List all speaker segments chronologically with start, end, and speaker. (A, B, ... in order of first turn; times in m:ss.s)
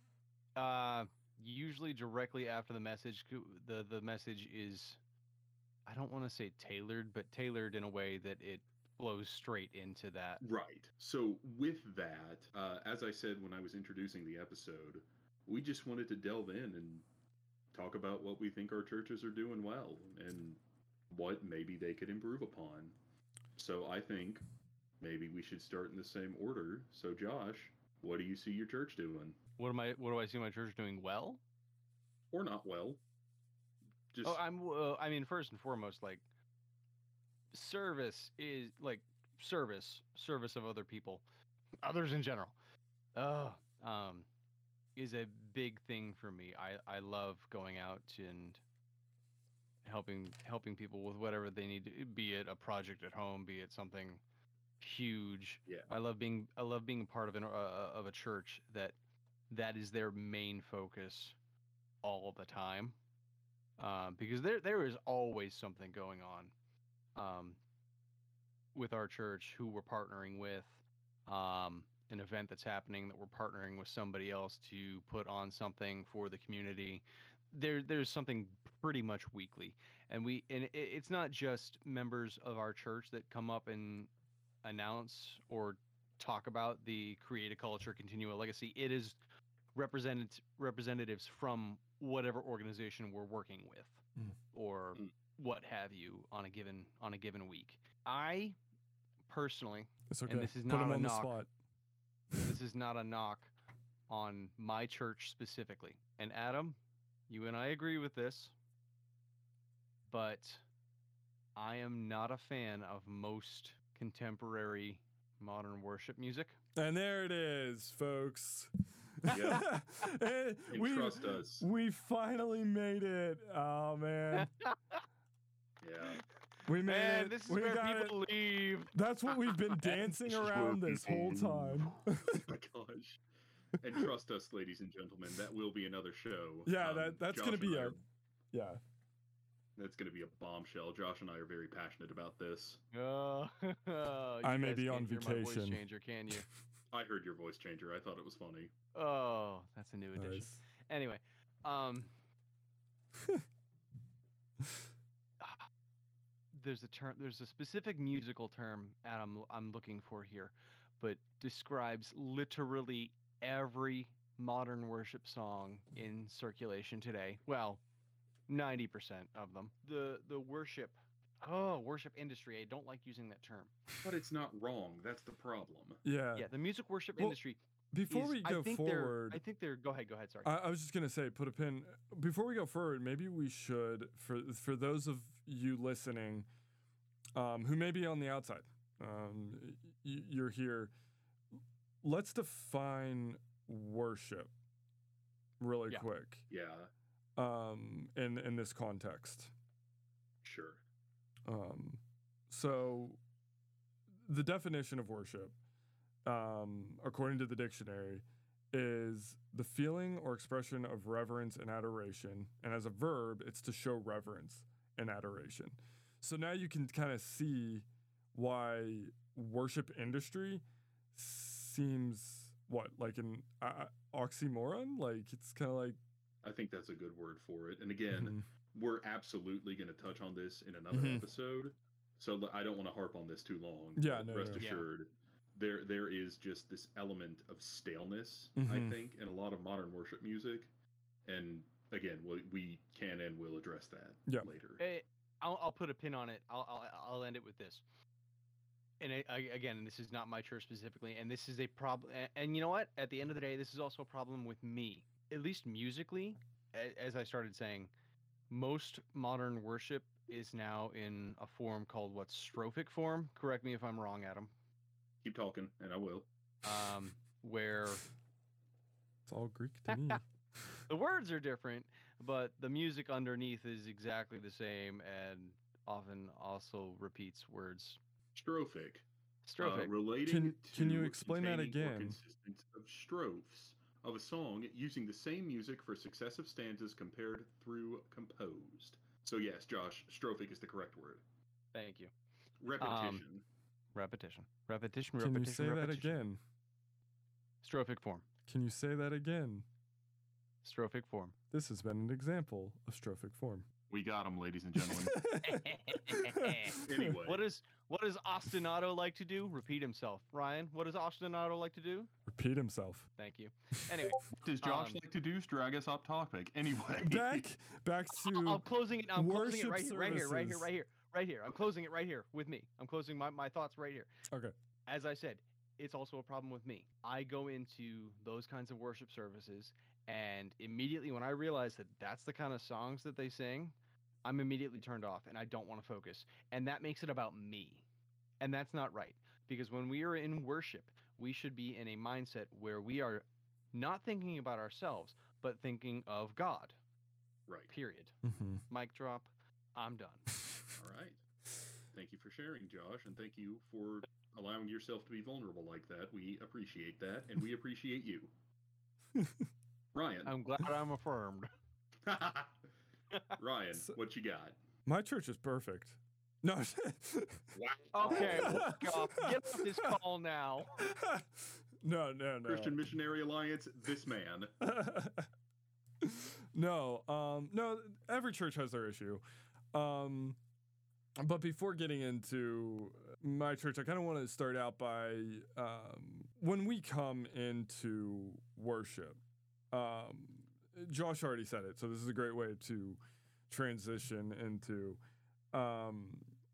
0:00.6-0:05.0 A
0:05.8-0:10.4 A
0:10.4-0:17.0 B
0:17.7-0:20.6 B
0:21.1-0:22.9 B
0:23.6-0:24.4 B
0:25.0-0:29.4 B
0:29.6-0:31.4 A
0:32.3-0:33.0 B
0:34.1-0:34.4 B
0:34.2-0:36.2 A
0:37.5-0:41.2 A
0:41.8-0:42.5 A
0:43.1-0:44.3 A
0:45.0-0:48.6 A
0:49.8-0:54.2 A
0:54.8-0:58.9 A
0:59.5-1:01.4 A
1:02.0-1:03.0 A
1:03.8-1:06.5 A
1:07.2-1:07.6 A
1:08.7-1:24.1 A
1:24.6-1:29.2 A
1:29.7-1:38.6 A
1:39.3-1:41.4 A
1:40.1-1:41.5 C
1:42.4-1:43.5 A
1:44.1-1:46.8 A
1:47.3-1:48.5 A
1:50.1-1:50.6 A
1:51.6-1:56.6 A
1:56.8-2:04.5 C
1:59.3-1:59.7 B
2:00.7-2:01.7 B
2:04.3-2:05.0 A
2:05.8-2:06.2 B
2:06.6-2:08.2 C
2:06.8-2:10.1 A
2:08.9-2:12.5 C
2:10.2-2:13.2 B
2:13.8-2:18.0 B
2:16.6-2:18.0 C
2:18.5-2:18.8 C
2:19.8-2:22.8 B
2:22.9-2:26.5 A
2:24.4-2:25.8 C
2:26.9-2:28.7 B
2:28.9-2:32.1 A
2:30.2-2:30.6 C
2:33.2-2:33.4 C
2:35.4-2:35.7 A
2:36.5-2:47.8 A
2:48.5-2:53.7 A
2:54.0-2:56.0 B
2:56.0-2:56.5 C
2:56.4-3:00.5 A
2:57.9-2:59.4 C
3:00.4-3:06.5 C
3:07.3-3:10.9 C
3:12.0-3:14.5 C
3:15.6-3:16.4 C
3:16.5-3:16.9 B
3:17.4-3:19.5 C
3:20.4-3:20.8 B
3:21.5-3:23.2 C
3:24.2-3:25.5 C
3:26.2-3:46.0 C
3:46.4-4:00.7 B
3:48.1-3:48.4 C
3:50.9-3:51.2 C
3:54.0-3:54.6 C
3:54.6-3:54.8 A
3:58.6-3:59.0 C
4:01.2-4:04.8 B
4:04.8-4:07.8 A
4:09.0-4:17.9 A
4:18.5-4:24.5 A
4:25.2-4:26.3 B
4:26.6-4:28.0 A
4:29.2-4:30.2 C
4:29.9-4:30.2 A
4:30.9-4:38.0 A
4:38.3-4:39.0 B
4:39.5-4:39.9 A
4:39.6-4:51.2 B
4:40.3-4:42.2 C
4:51.7-4:52.1 A
4:52.6-4:53.4 B
4:52.8-4:53.2 A
4:53.9-4:56.2 A
4:55.2-4:56.4 C
4:57.6-4:58.2 A
4:58.5-4:59.6 C
5:00.6-5:01.3 A
5:01.5-5:03.7 C
5:03.9-5:05.3 B
5:04.8-5:07.2 C
5:05.4-5:12.1 A
5:06.8-5:07.4 B
5:12.3-5:13.1 C
5:13.2-5:15.0 A
5:14.2-5:17.4 B
5:17.0-5:18.6 C
5:18.2-5:24.1 A
5:19.2-5:20.7 C
5:24.9-5:37.8 A
5:38.4-5:46.8 A
5:47.7-5:48.1 A
5:48.2-5:48.6 C
5:48.7-5:50.3 A
5:50.7-5:51.2 B
5:51.9-5:58.3 B
5:59.1-5:59.5 C
5:59.9-6:00.3 B
6:00.2-6:01.5 A
6:02.0-6:02.5 B
6:03.3-6:04.6 B
6:04.8-6:07.5 C
6:07.5-6:08.8 B
6:07.9-6:10.8 A
6:08.1-6:10.0 C
6:10.8-6:12.8 C
6:12.4-6:14.5 B
6:14.6-6:15.3 C
6:16.0-6:19.2 C
6:19.7-6:20.4 C
6:21.2-6:29.2 C
6:29.7-6:35.0 C
6:35.5-6:36.3 C